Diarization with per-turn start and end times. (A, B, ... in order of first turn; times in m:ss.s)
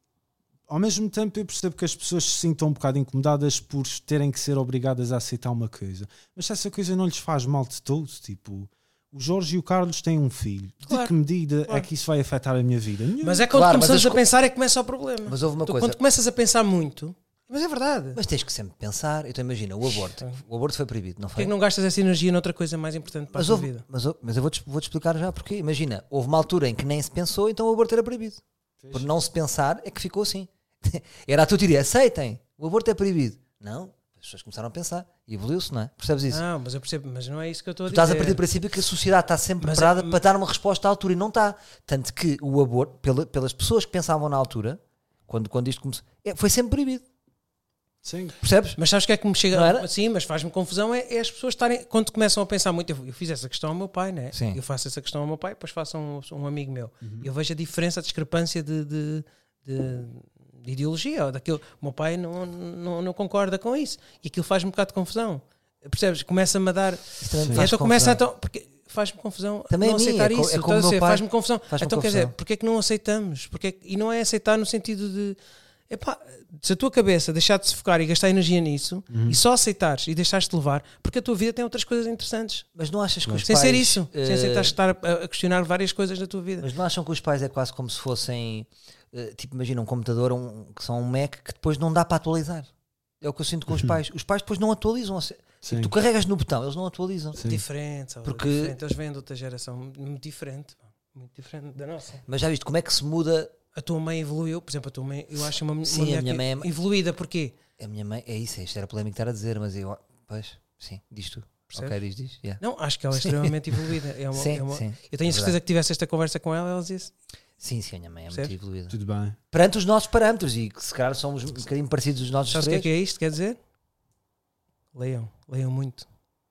0:00.7-0:13.5 A
0:10.8-0:11.1 B
0:13.2-0:18.2 B
0:13.5-0:14.2 C
0:15.2-0:16.0 C
0:18.1-0:21.5 C
0:20.1-0:20.4 B
0:21.4-0:23.8 B
0:23.3-0:36.4 C
0:28.8-0:29.1 A
0:36.3-0:38.4 B
0:37.9-0:47.0 C
0:39.6-0:40.2 B
0:48.0-0:48.4 A
0:48.4-0:48.8 C
0:48.8-1:15.4 B
0:49.5-0:49.9 C
0:54.3-0:54.6 C
0:57.0-0:57.3 A
1:07.2-1:08.2 C
1:09.7-1:12.3 C
1:15.9-1:22.7 B
1:19.1-1:19.4 A
1:22.7-1:24.7 C
1:23.4-1:26.7 B
1:26.6-1:32.7 C
1:33.2-1:37.4 C
1:35.6-1:35.9 A
1:37.4-1:37.6 A
1:37.4-1:42.2 B
1:38.2-1:38.8 C
1:42.2-1:43.5 C
1:43.7-1:47.6 B
1:45.8-1:46.7 C
1:47.8-1:52.6 C
1:51.7-1:52.0 B
1:52.6-1:57.1 B
1:53.2-1:53.5 C
1:54.3-1:55.6 C
1:57.6-1:59.0 C
1:58.9-1:59.4 A
1:59.5-2:02.9 C
2:02.5-2:03.6 B
2:04.9-2:06.1 B